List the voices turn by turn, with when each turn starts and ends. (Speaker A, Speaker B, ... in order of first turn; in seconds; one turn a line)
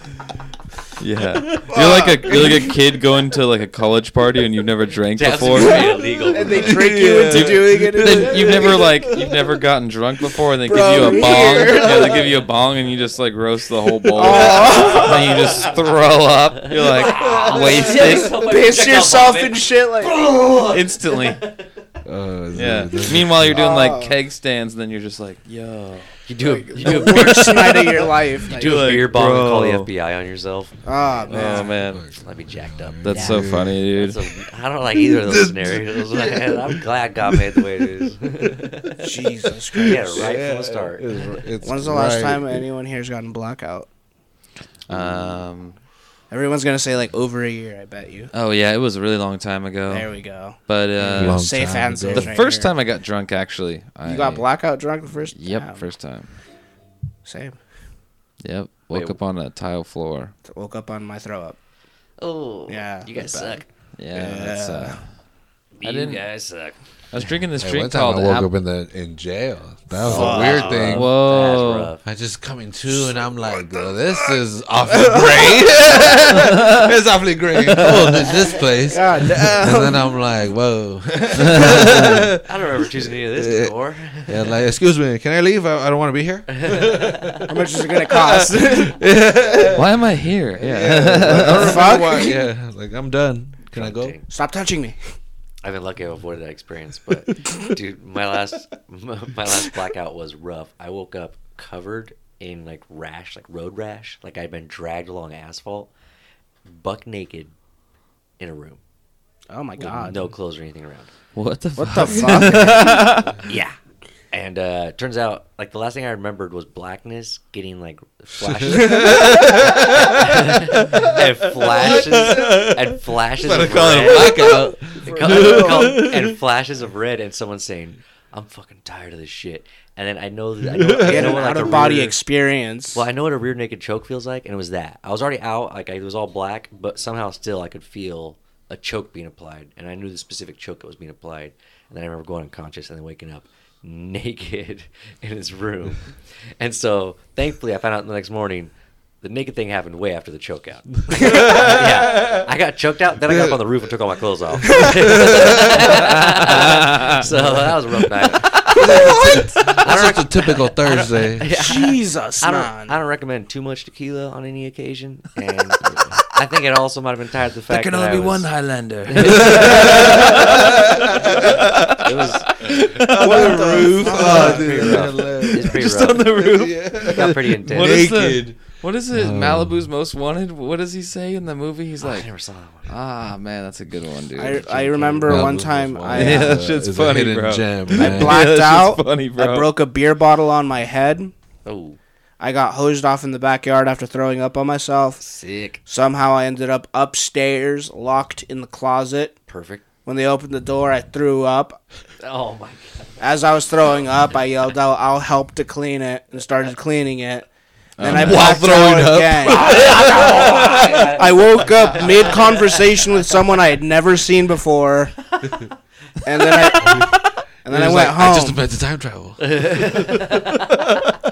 Speaker A: 1.0-5.9
Speaker B: 1.5-2.7
Speaker C: 1.6-2.5
Speaker D: 5.1-6.8
Speaker C: 5.8-8.9
Speaker A: 6.5-18.3
Speaker B: 6.7-9.3
Speaker C: 10.6-12.3
Speaker B: 10.7-12.2
Speaker C: 14.1-15.5
Speaker B: 14.2-14.9
Speaker D: 14.6-15.9
Speaker D: 16.5-21.7
Speaker C: 17.5-20.2
Speaker A: 20.6-21.4
Speaker B: 22.0-23.7
Speaker A: 22.5-26.1
Speaker C: 23.4-24.2
Speaker D: 26.2-33.4
Speaker C: 26.4-29.0
Speaker A: 26.9-27.5
Speaker A: 28.6-29.9
Speaker C: 30.8-31.7
Speaker A: 31.3-32.0
Speaker B: 31.9-33.9
Speaker A: 33.0-34.2
Speaker D: 33.9-39.1
Speaker B: 34.9-38.1
Speaker C: 39.0-40.3
Speaker D: 39.8-41.1
Speaker B: 39.9-42.7
Speaker C: 41.6-43.9
Speaker A: 44.9-45.8
Speaker B: 44.9-45.4
Speaker C: 46.3-48.3
Speaker A: 48.3-50.1
Speaker C: 49.9-52.7
Speaker A: 50.6-51.6
Speaker B: 51.1-52.4
Speaker A: 52.1-54.5
Speaker C: 54.0-55.9
Speaker A: 55.3-56.3
Speaker C: 57.2-57.6
Speaker A: 58.4-60.3
Speaker D: 58.9-59.2
Speaker C: 60.5-61.6
Speaker D: 62.2-63.7
Speaker C: 62.7-65.0
Speaker A: 64.0-65.1
Speaker D: 65.8-66.8
Speaker A: 65.8-66.2
Speaker A: 67.1-68.5
Speaker B: 67.6-71.1
Speaker D: 70.0-72.0
Speaker C: 70.0-70.9
Speaker A: 70.5-71.9
Speaker B: 72.0-82.4
Speaker C: 72.9-74.3
Speaker C: 74.9-76.4
Speaker A: 77.7-78.2
Speaker C: 78.3-80.1
Speaker A: 81.4-82.2
Speaker D: 82.4-84.6
Speaker B: 83.0-89.9
Speaker D: 86.5-87.5
Speaker C: 87.5-89.0
Speaker A: 89.7-91.9
Speaker B: 90.5-94.2
Speaker C: 91.3-92.4
Speaker D: 93.7-94.3
Speaker C: 94.3-95.0
Speaker D: 95.6-105.9
Speaker D: 106.7-107.5
Speaker D: 108.4-108.8
Speaker C: 109.5-110.2
Speaker D: 109.8-111.1
Speaker A: 111.3-113.4
Speaker C: 111.8-113.3
Speaker D: 113.4-113.8
Speaker D: 114.3-132.1
Speaker B: 118.4-126.3
Speaker C: 118.9-119.5
Speaker B: 130.7-132.0
Speaker C: 131.0-133.1
Speaker D: 132.9-168.5
Speaker B: 151.1-152.4
Speaker C: 151.2-151.7
Speaker B: 153.2-153.8
Speaker B: 154.6-156.0
Speaker A: 156.8-157.2
Speaker B: 157.3-158.1
Speaker B: 158.7-161.5
Speaker C: 158.7-159.8
Speaker C: 161.5-163.0
Speaker A: 167.7-172.0
Speaker D: 169.1-170.7
Speaker B: 169.2-171.7
Speaker D: 171.9-172.8
Speaker A: 172.5-182.3
Speaker B: 172.9-179.8
Speaker C: 173.1-175.0
Speaker D: 174.0-176.3
Speaker D: 177.0-178.1
Speaker D: 182.0-182.9
Speaker A: 182.8-184.7
Speaker C: 184.3-186.6
Speaker D: 184.6-185.5
Speaker B: 185.2-188.4
Speaker A: 186.1-189.7
Speaker C: 187.9-191.3
Speaker D: 191.6-192.0
Speaker C: 192.4-195.2
Speaker D: 195.2-195.8
Speaker C: 195.8-199.4
Speaker D: 199.5-199.8
Speaker C: 200.0-201.8
Speaker D: 202.2-203.2
Speaker C: 203.2-215.4
Speaker A: 208.0-208.5
Speaker B: 208.0-211.1
Speaker D: 209.5-213.1
Speaker D: 215.4-215.7
Speaker C: 216.2-218.6
Speaker B: 216.8-217.1
Speaker B: 217.7-221.1
Speaker D: 219.4-220.7